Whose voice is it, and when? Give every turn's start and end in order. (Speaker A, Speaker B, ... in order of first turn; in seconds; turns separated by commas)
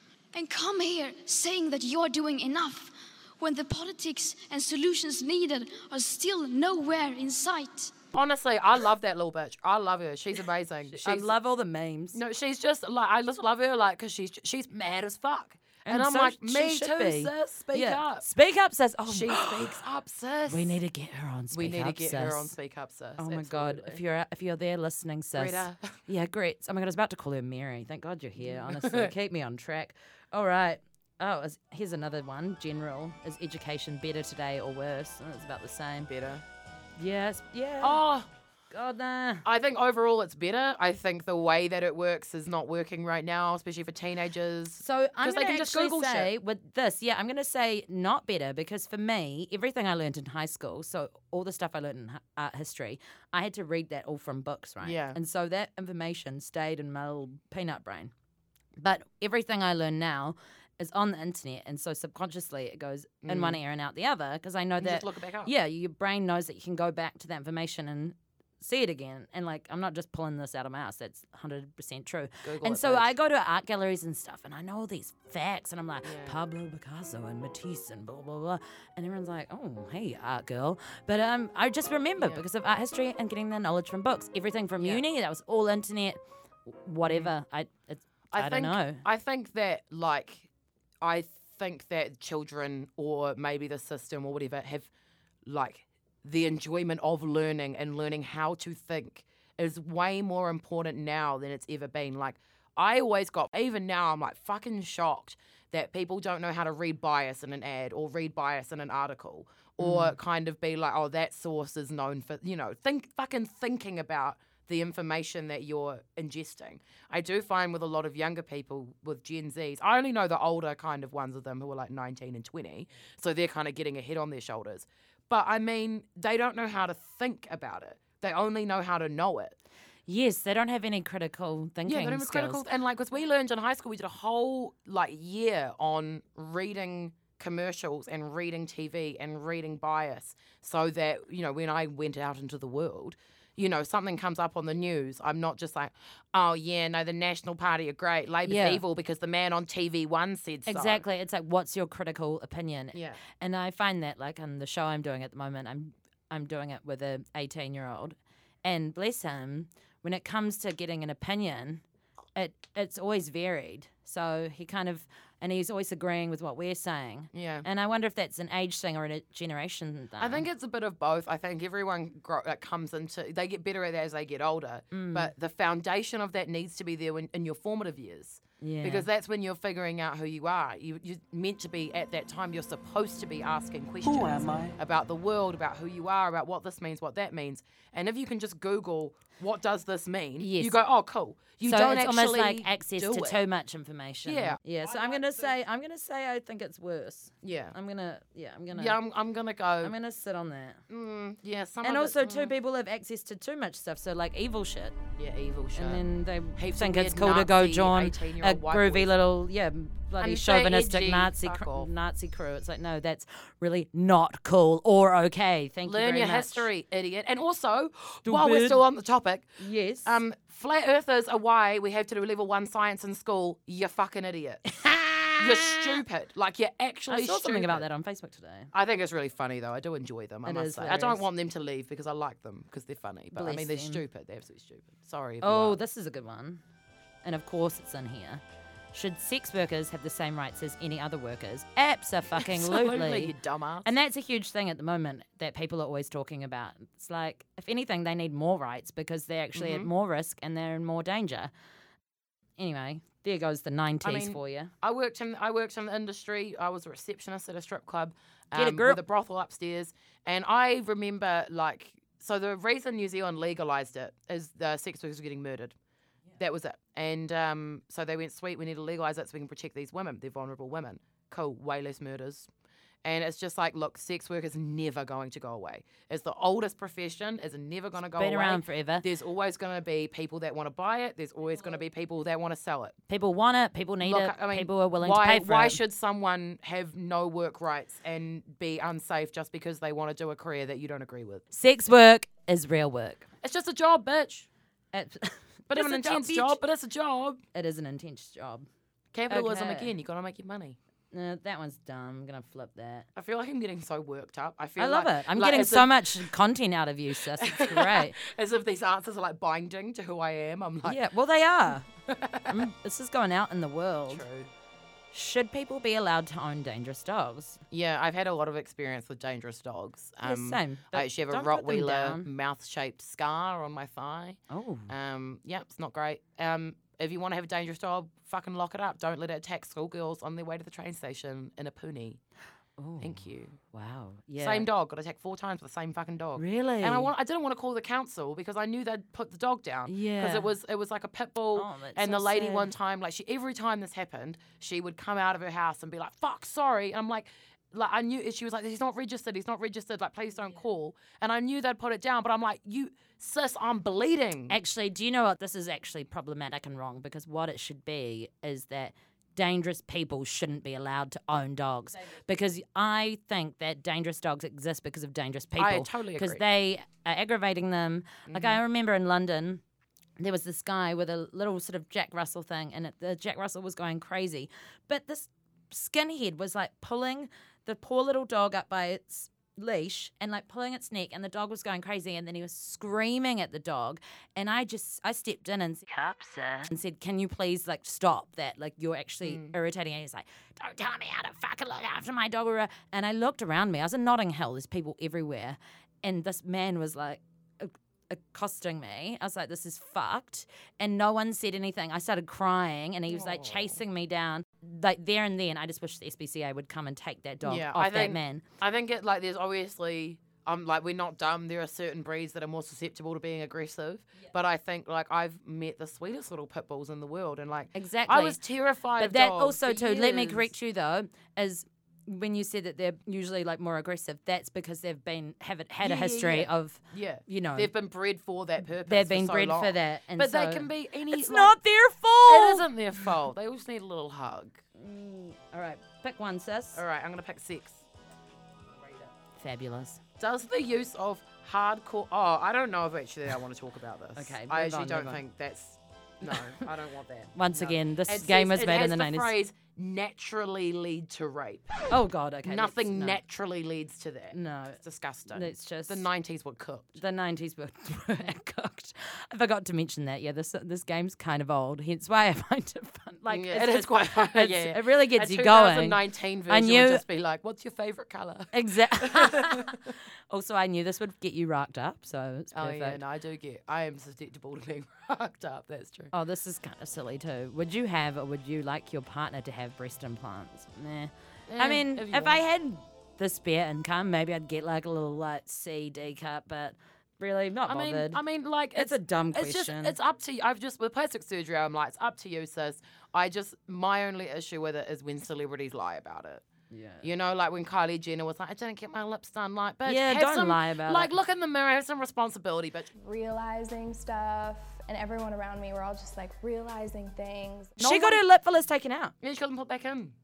Speaker A: 0.3-7.9, Speaker B: 8.1-11.3, Speaker C: 10.9-12.2, Speaker B: 12.1-18.3, Speaker C: 15.9-19.8, Speaker B: 19.1-20.8, Speaker C: 20.5-22.6, Speaker B: 21.5-24.0, Speaker C: 23.2-36.1, Speaker B: 25.4-25.9, Speaker B: 28.4-29.1, Speaker B: 36.1-36.4, Speaker C: 37.0-38.0, Speaker B: 37.8-38.3, Speaker C: 38.7-39.5, Speaker B: 39.5-46.3, Speaker C: 44.8-58.1, Speaker B: 54.8-55.2, Speaker C: 58.8-89.0, Speaker B: 63.2-63.6, Speaker B: 64.8-65.5, Speaker B: 72.4-73.1, Speaker B: 76.0-76.4, Speaker B: 82.2-82.4, Speaker B: 84.8-85.0, Speaker B: 87.0-87.3, Speaker B: 88.3-90.5, Speaker B: 91.0-94.9, Speaker B: 95.5-129.6, Speaker C: 109.8-110.2, Speaker C: 130.1-132.7, Speaker B: 131.9-151.0, Speaker C: 148.4-148.8, Speaker C: 150.7-161.8, Speaker B: 152.9-153.2, Speaker C: 162.4-170.5, Speaker B: 167.3-167.7, Speaker B: 170.2-193.4, Speaker C: 174.9-175.3, Speaker C: 178.6-179.1, Speaker C: 190.4-190.8, Speaker C: 191.6-199.0, Speaker B: 194.2-195.6, Speaker B: 197.4-197.8, Speaker B: 198.7-199.9, Speaker C: 199.8-200.8, Speaker B: 200.9-202.5, Speaker C: 201.8-205.0, Speaker B: 205.2-206.1, Speaker C: 205.8-216.7, Speaker B: 206.6-209.1, Speaker B: 210.2-211.9, Speaker B: 215.8-219.5, Speaker C: 218.2-218.8, Speaker C: 219.6-220.2, Speaker B: 220.0-224.7, Speaker C: 224.8-225.9, Speaker B: 225.4-227.9, Speaker C: 227.1-228.7, Speaker B: 228.7-235.8, Speaker C: 230.4-231.2, Speaker C: 233.3-234.0, Speaker C: 235.4-236.6, Speaker C: 237.2-238.4, Speaker C: 238.9-251.5, Speaker B: 242.4-243.9, Speaker B: 249.6-249.9, Speaker C: 252.6-254.7, Speaker B: 254.0-265.8, Speaker C: 258.5-259.0, Speaker B: 266.4-272.5, Speaker B: 273.0-283.0, Speaker C: 278.2-279.1, Speaker C: 283.1-285.8, Speaker B: 284.0-291.4, Speaker C: 291.5-293.3, Speaker B: 293.4-294.5, Speaker C: 294.9-296.6, Speaker B: 295.7-297.4, Speaker C: 297.5-298.7, Speaker B: 299.1-300.8, Speaker C: 299.3-299.9, Speaker C: 301.1-303.1, Speaker B: 303.2-306.3, Speaker C: 304.8-308.2, Speaker B: 307.2-311.0, Speaker C: 310.9-311.9, Speaker B: 312.1-312.7, Speaker C: 312.5-314.2, Speaker B: 314.1-314.5, Speaker C: 315.1-317.6, Speaker B: 317.7-332.2, Speaker C: 320.2-322.3, Speaker C: 324.5-324.9, Speaker C: 332.8-334.7, Speaker B: 333.0-333.6, Speaker B: 334.4-354.6, Speaker C: 336.4-337.1, Speaker C: 339.9-340.5, Speaker C: 341.6-342.7, Speaker C: 354.5-369.6, Speaker B: 365.6-366.4, Speaker B: 368.3-368.6, Speaker C: 370.2-408.4, Speaker B: 389.2-389.6, Speaker B: 403.1-403.8, Speaker B: 407.4-420.5, Speaker C: 417.8-418.4, Speaker C: 419.0-427.7, Speaker B: 425.8-431.6, Speaker C: 428.9-432.7, Speaker B: 432.3-434.6, Speaker C: 434.8-436.8, Speaker B: 436.7-437.8, Speaker B: 438.8-439.1, Speaker C: 439.4-440.0, Speaker B: 440.2-451.8, Speaker C: 444.2-445.2, Speaker C: 446.3-446.7, Speaker C: 447.4-449.3, Speaker C: 451.9-453.2, Speaker B: 452.4-457.0, Speaker C: 454.3-454.8, Speaker C: 455.3-456.1, Speaker C: 457.0-467.0, Speaker B: 463.3-469.8, Speaker C: 468.5-473.0, Speaker B: 472.5-476.1, Speaker C: 476.1-488.2, Speaker B: 481.5-482.4, Speaker B: 487.7-496.4, Speaker C: 488.8-490.0, Speaker C: 496.7-497.1, Speaker B: 497.0-502.9, Speaker C: 499.9-501.1, Speaker D: 503.0-507.8, Speaker B: 507.8-508.2, Speaker C: 507.8-509.1, Speaker B: 509.2-510.1